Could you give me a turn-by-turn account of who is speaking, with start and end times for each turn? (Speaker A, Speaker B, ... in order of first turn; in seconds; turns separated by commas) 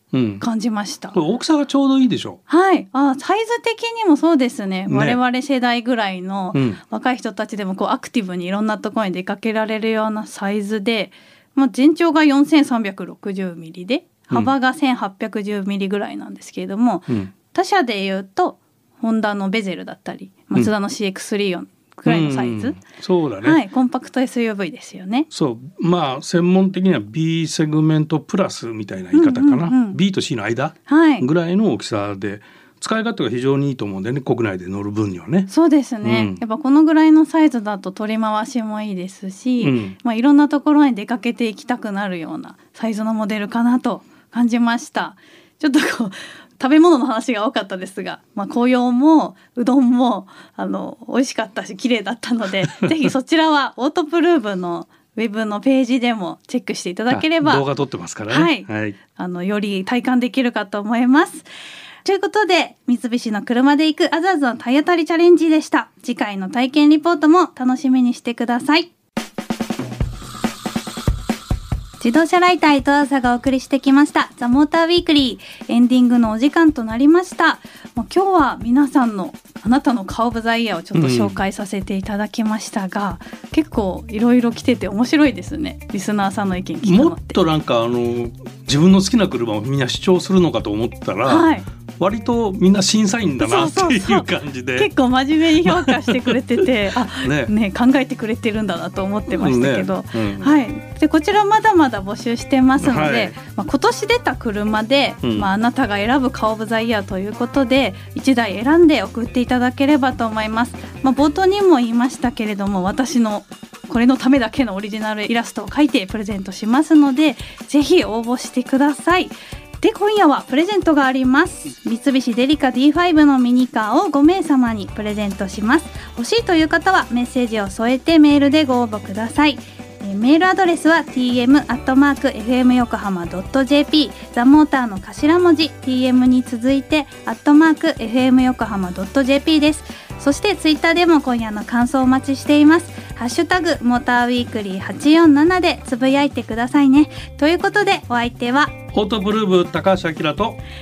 Speaker A: 0.1-0.4, Speaker B: 0.4-1.1, Speaker A: 1.1-2.4, Speaker B: 2.5-22.8, Speaker A: 4.9-5.2, Speaker A: 6.5-6.8, Speaker A: 17.1-17.3, Speaker A: 22.1-23.6, Speaker B: 23.4-25.3, Speaker A: 25.3-35.5, Speaker B: 29.1-30.0, Speaker B: 30.9-31.2, Speaker B: 35.5-57.6, Speaker A: 36.0-36.4, Speaker A: 39.6-40.0, Speaker A: 57.1-59.0, Speaker B: 58.3-61.5, Speaker B: 62.0-68.9, Speaker B: 72.0-87.4, Speaker A: 80.9-81.4, Speaker A: 86.8-94.9, Speaker B: 91.2-91.7, Speaker B: 93.4-148.7, Speaker A: 95.6-96.4, Speaker A: 97.1-97.5, Speaker A: 99.3-100.6, Speaker A: 102.8-103.4, Speaker A: 105.2-105.5, Speaker A: 148.9-150.6